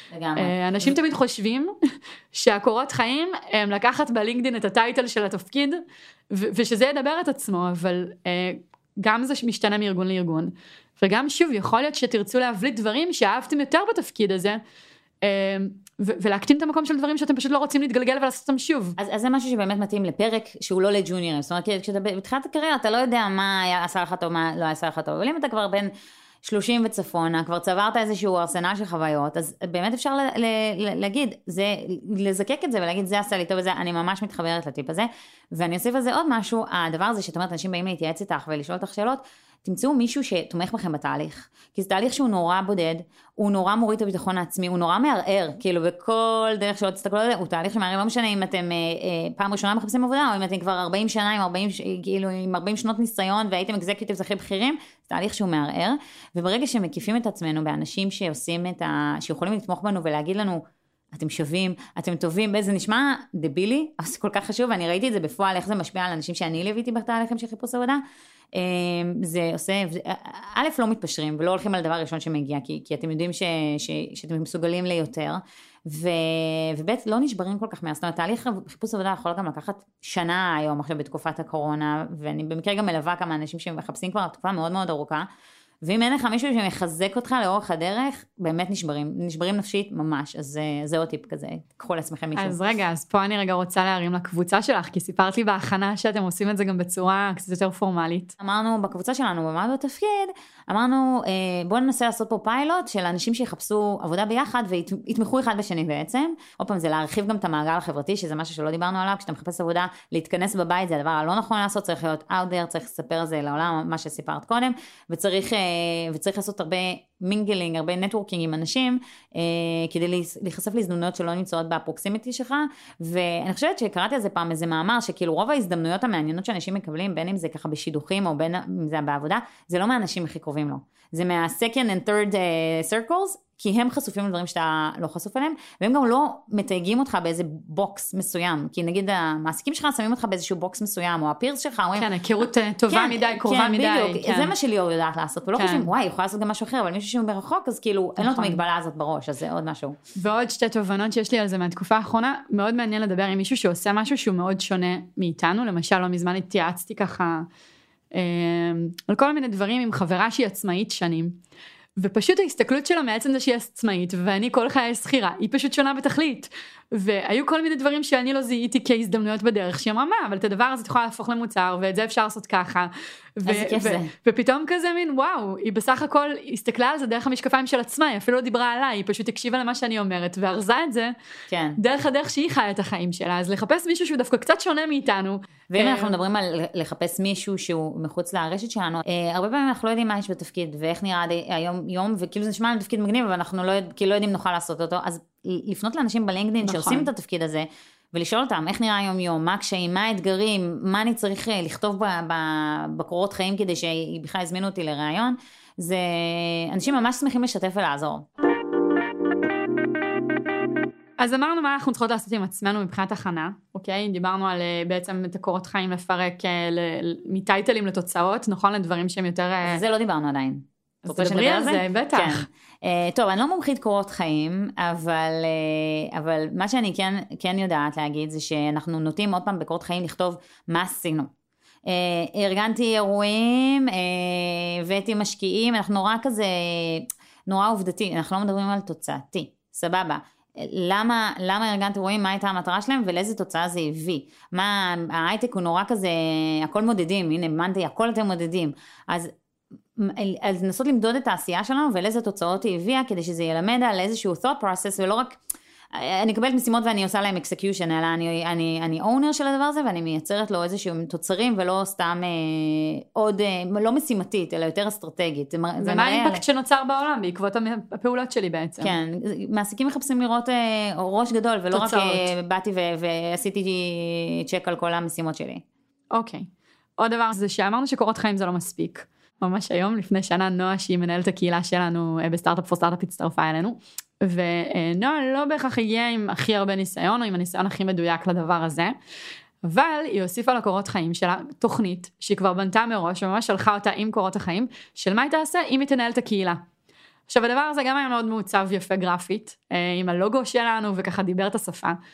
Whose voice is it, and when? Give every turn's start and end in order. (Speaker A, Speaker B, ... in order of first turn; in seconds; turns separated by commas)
Speaker A: 0.1-0.9, Speaker B: 0.3-1.7, Speaker B: 2.3-14.6, Speaker B: 15.2-19.0, Speaker A: 19.0-25.9, Speaker A: 26.4-68.0, Speaker A: 68.5-85.2, Speaker A: 85.8-92.6, Speaker B: 92.3-98.3, Speaker A: 98.4-142.1, Speaker B: 141.9-144.5, Speaker A: 142.9-150.0, Speaker B: 145.5-145.9, Speaker B: 148.2-148.6, Speaker B: 150.2-157.5, Speaker B: 158.1-161.4, Speaker B: 162.0-181.1, Speaker A: 173.4-174.1, Speaker A: 181.5-181.8, Speaker B: 181.8-186.1, Speaker A: 185.7-208.2, Speaker B: 196.6-197.1, Speaker B: 211.2-219.8, Speaker A: 219.7-231.3, Speaker B: 221.0-222.4, Speaker A: 231.8-249.3, Speaker A: 249.9-255.4, Speaker A: 255.9-266.4, Speaker B: 265.8-268.9, Speaker A: 268.8-275.6, Speaker B: 271.7-272.3, Speaker B: 276.1-288.9, Speaker B: 289.6-296.6, Speaker B: 297.3-302.0